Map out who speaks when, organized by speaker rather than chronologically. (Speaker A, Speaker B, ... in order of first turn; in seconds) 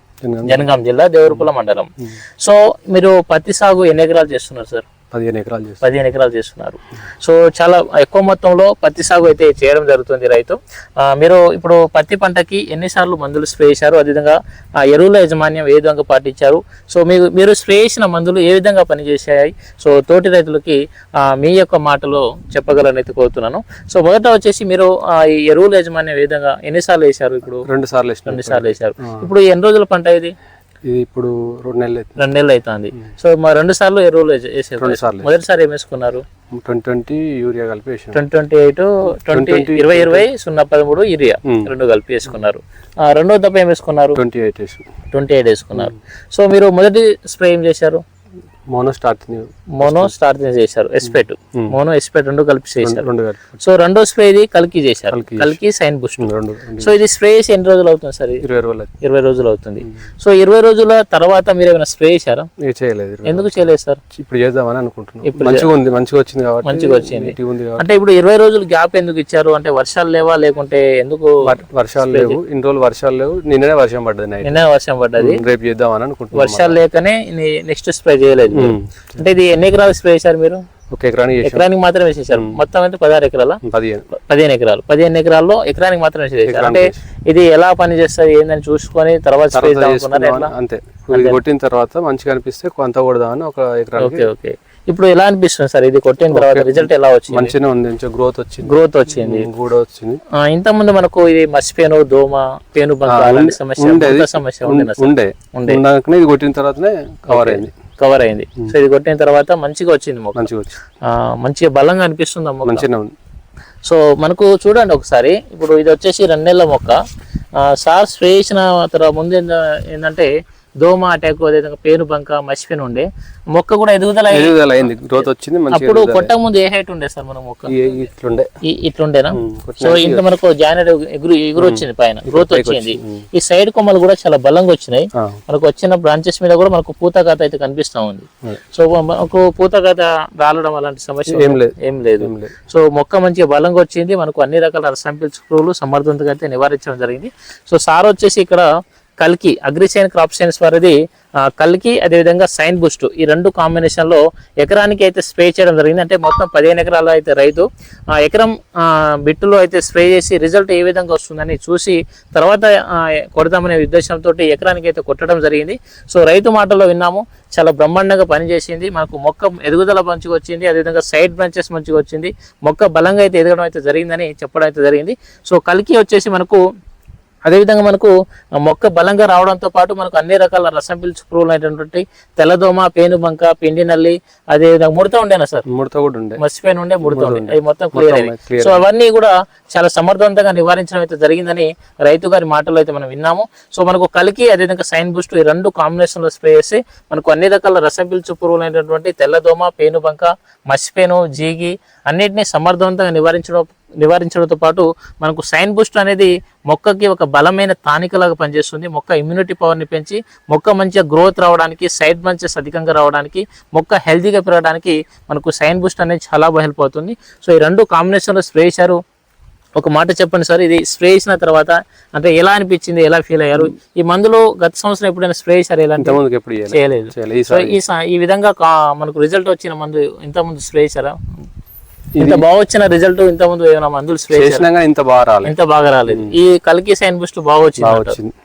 Speaker A: 0.2-0.7, 5.1-5.8, 27.6-29.3, 30.9-32.2, 34.8-35.3, 36.5-38.2, 39.3-40.3, 44.1-44.9, 48.7-50.1, 52.8-53.5, 55.1-55.6, 56.2-56.9, 58.4-58.9, 62.6-67.8, 71.4-74.6, 75.2-76.8, 78.5-78.9, 80.9-81.7, 82.3-82.6, 83.6-84.0, 86.5-86.9, 89.5-94.3, 96.3-100.2, 103.0-107.7, 110.3-110.7, 112.6-113.1, 124.3-126.3, 127.7-128.5, 129.3-130.2, 131.6-133.2, 141.3-142.5, 185.7-186.4, 187.0-188.8, 226.0-227.8, 232.1-232.4, 234.3-235.5, 236.1-236.3, 237.8-238.3
Speaker B: 0.4-4.8, 5.8-27.6, 28.3-30.3, 32.2-36.2, 38.1-44.2, 45.1-48.0, 49.8-53.0, 53.6-58.4, 59.0-62.5, 63.2-64.0, 65.2-65.7, 66.6-71.3, 72.0-72.4, 74.4-75.4, 76.3-80.6, 81.4-83.6, 84.1-90.5, 91.1-91.4, 94.0-97.5, 98.6-99.5, 100.4-105.8, 107.3-110.5, 111.0-112.9, 113.8-117.0, 117.6-120.3, 120.8-124.5, 125.7-128.0, 128.6-148.7, 149.2-176.6, 177.4-185.6, 186.4-219.0, 219.8-226.2, 226.7-231.2, 232.2-234.7, 235.4-238.2